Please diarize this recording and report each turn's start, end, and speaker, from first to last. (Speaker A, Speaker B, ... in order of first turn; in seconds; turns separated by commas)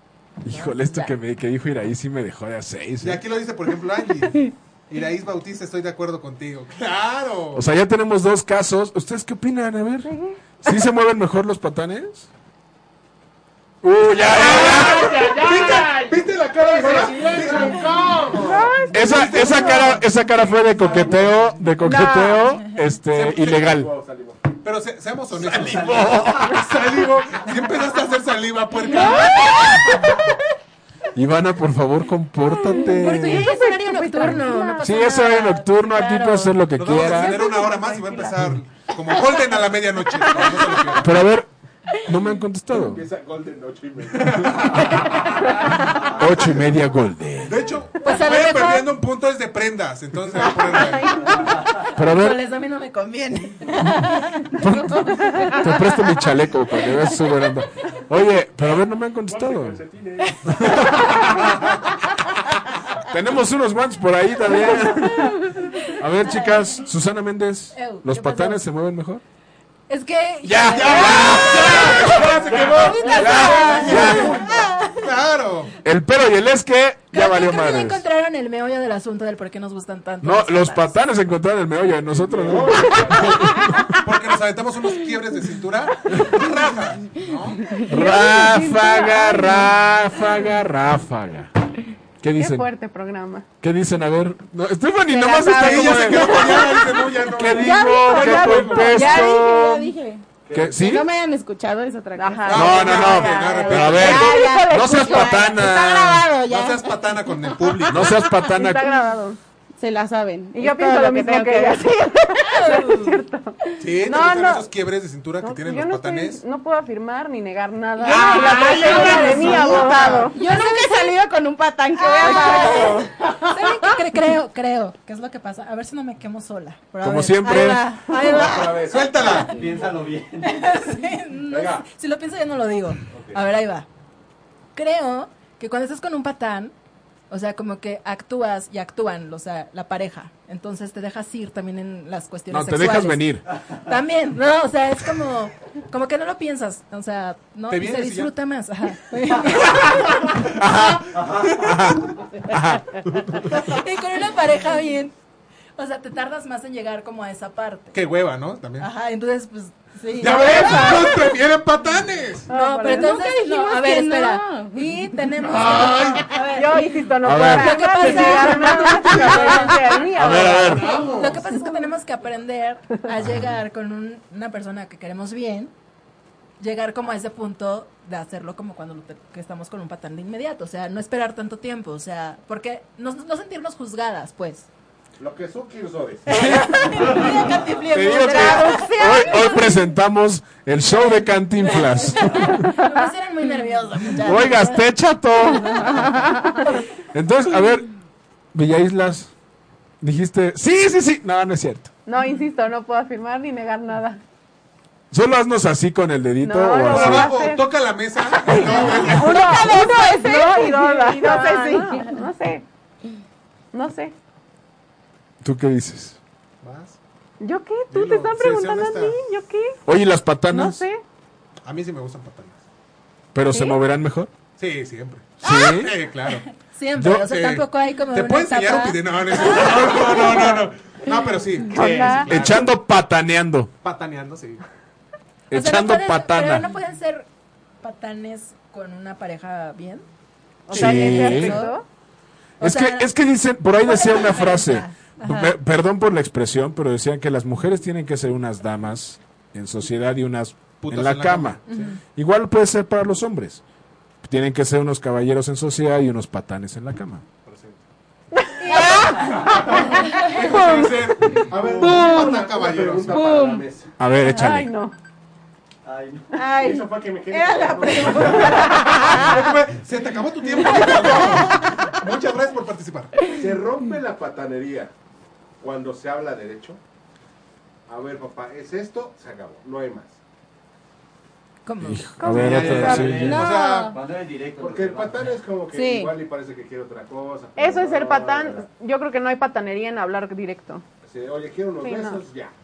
Speaker A: 0.4-3.2, Speaker B: 0.5-1.1, Speaker C: 3.0-7.6, Speaker A: 7.5-12.3, Speaker D: 10.1-10.4, Speaker A: 13.8-15.3, Speaker C: 14.3-18.4, Speaker E: 14.4-18.8, Speaker D: 18.4-20.0, Speaker A: 18.9-23.9, Speaker C: 18.9-20.0, Speaker E: 20.8-21.4, Speaker D: 21.8-22.5, Speaker C: 23.1-23.8, Speaker E: 23.4-24.4, Speaker C: 24.6-29.9, Speaker A: 25.7-26.6, Speaker D: 29.6-30.2, Speaker A: 31.1-33.5, Speaker D: 32.8-35.0, Speaker B: 33.0-36.6, Speaker A: 34.8-37.5, Speaker C: 36.7-41.2, Speaker D: 37.1-38.3, Speaker A: 41.0-43.0, Speaker E: 42.7-45.4, Speaker C: 44.1-45.1, Speaker E: 46.0-46.6, Speaker A: 46.1-47.6, Speaker C: 47.4-51.4, Speaker B: 48.0-48.9, Speaker D: 50.7-51.4, Speaker B: 51.5-56.1, Speaker A: 52.0-52.4, Speaker A: 54.5-59.8, Speaker E: 59.3-60.9, Speaker A: 60.5-61.6, Speaker A: 63.0-65.4, Speaker A: 66.0-69.2, Speaker B: 67.7-68.6, Speaker B: 69.9-74.2, Speaker C: 70.5-75.7, Speaker A: 70.5-72.0, Speaker E: 72.0-74.7, Speaker A: 73.1-74.4, Speaker F: 74.5-74.9, Speaker A: 75.8-78.0, Speaker B: 77.1-81.0, Speaker A: 80.2-84.0, Speaker E: 82.2-83.5, Speaker C: 84.0-87.6, Speaker A: 86.1-86.4, Speaker F: 87.2-87.9, Speaker D: 87.8-89.7, Speaker A: 87.9-91.5, Speaker A: 92.2-92.7, Speaker D: 92.4-93.5, Speaker A: 93.6-96.6, Speaker F: 95.1-97.1, Speaker C: 95.5-99.1, Speaker A: 97.4-99.9, Speaker D: 97.6-99.2, Speaker F: 97.6-100.2, Speaker E: 100.5-100.8, Speaker A: 100.5-101.0, Speaker F: 100.7-102.8, Speaker D: 102.2-105.6, Speaker C: 102.5-104.3, Speaker A: 102.5-106.3, Speaker F: 103.8-107.8, Speaker C: 106.4-108.1, Speaker A: 107.9-108.9, Speaker D: 108.1-109.4, Speaker F: 109.8-111.9, Speaker D: 110.5-114.7, Speaker B: 112.5-113.1, Speaker C: 113.8-116.4, Speaker D: 115.4-120.4, Speaker F: 118.0-119.7, Speaker B: 118.0-119.8, Speaker C: 118.1-120.3, Speaker F: 120.3-123.1, Speaker B: 120.3-121.1, Speaker B: 122.0-133.9, Speaker D: 122.2-123.1, Speaker A: 127.0-127.8, Speaker F: 127.5-128.6, Speaker E: 128.2-129.5, Speaker C: 128.4-129.6, Speaker G: 129.2-130.8, Speaker E: 131.5-131.8, Speaker B: 134.7-136.7, Speaker B: 137.3-150.5, Speaker A: 142.5-143.4, Speaker C: 147.7-148.3, Speaker A: 150.6-153.4, Speaker B: 153.5-155.1, Speaker B: 155.8-158.0, Speaker C: 157.9-158.9, Speaker B: 158.8-161.3, Speaker C: 160.2-162.5, Speaker D: 162.5-163.2, Speaker B: 162.5-169.8, Speaker F: 162.9-166.5, Speaker C: 165.5-166.3, Speaker D: 166.5-171.4, Speaker A: 167.2-167.9, Speaker A: 170.1-170.9, Speaker E: 170.3-171.4, Speaker C: 171.0-171.3, Speaker B: 171.1-175.7, Speaker B: 176.6-184.7, Speaker E: 185.2-186.4, Speaker A: 186.3-192.6, Speaker B: 186.3-189.7, Speaker F: 188.2-189.7, Speaker B: 190.9-194.8, Speaker A: 194.2-196.3, Speaker B: 195.5-196.8, Speaker F: 195.9-196.6, Speaker A: 197.1-197.9, Speaker A: 198.5-199.3, Speaker A: 200.0-201.9, Speaker D: 202.1-204.2, Speaker A: 205.1-207.3, Speaker D: 206.4-207.6, Speaker C: 206.9-209.5, Speaker D: 208.4-212.6, Speaker F: 208.8-211.8, Speaker B: 210.2-212.1, Speaker D: 213.7-214.1, Speaker A: 215.4-216.2, Speaker C: 216.6-216.9, Speaker D: 217.4-219.8, Speaker C: 217.9-219.2, Speaker A: 219.9-220.8, Speaker D: 220.5-221.0, Speaker C: 221.6-222.6, Speaker A: 223.3-224.3, Speaker C: 224.6-226.4, Speaker A: 225.4-225.9, Speaker B: 226.7-229.0, Speaker A: 227.0-227.3, Speaker C: 227.1-232.7, Speaker D: 231.7-232.6, Speaker A: 232.2-233.7, Speaker C: 233.8-234.6, Speaker A: 235.5-236.7, Speaker B: 235.5-237.3, Speaker B: 237.8-240.1, Speaker D: 240.7-241.8, Speaker C: 240.7-241.1, Speaker A: 240.7-241.6, Speaker B: 240.8-241.7, Speaker F: 241.3-241.6, Speaker B: 242.6-243.1, Speaker A: 242.6-251.6, Speaker B: 243.8-245.5, Speaker C: 250.8-251.9, Speaker B: 251.7-251.9, Speaker A: 252.1-253.6, Speaker A: 254.2-257.2, Speaker E: 257.4-257.8, Speaker D: 258.3-261.0, Speaker F: 258.6-260.3, Speaker E: 259.3-259.6, Speaker C: 259.8-263.4, Speaker E: 261.5-263.9, Speaker F: 263.1-263.6, Speaker A: 264.0-264.7, Speaker D: 264.3-264.9, Speaker G: 265.8-266.3, Speaker F: 266.3-269.4, Speaker E: 266.5-268.8, Speaker C: 268.2-273.1, Speaker F: 270.6-271.6, Speaker E: 273.2-274.9, Speaker E: 275.6-276.8, Speaker E: 277.9-280.1, Speaker B: 281.6-282.3, Speaker A: 281.8-283.5, Speaker D: 282.2-283.0, Speaker C: 282.3-283.9, Speaker G: 282.5-285.4, Speaker F: 282.8-283.9, Speaker E: 284.6-288.6, Speaker F: 285.7-286.1, Speaker D: 287.6-290.8, Speaker E: 291.0-292.5, Speaker D: 291.8-292.2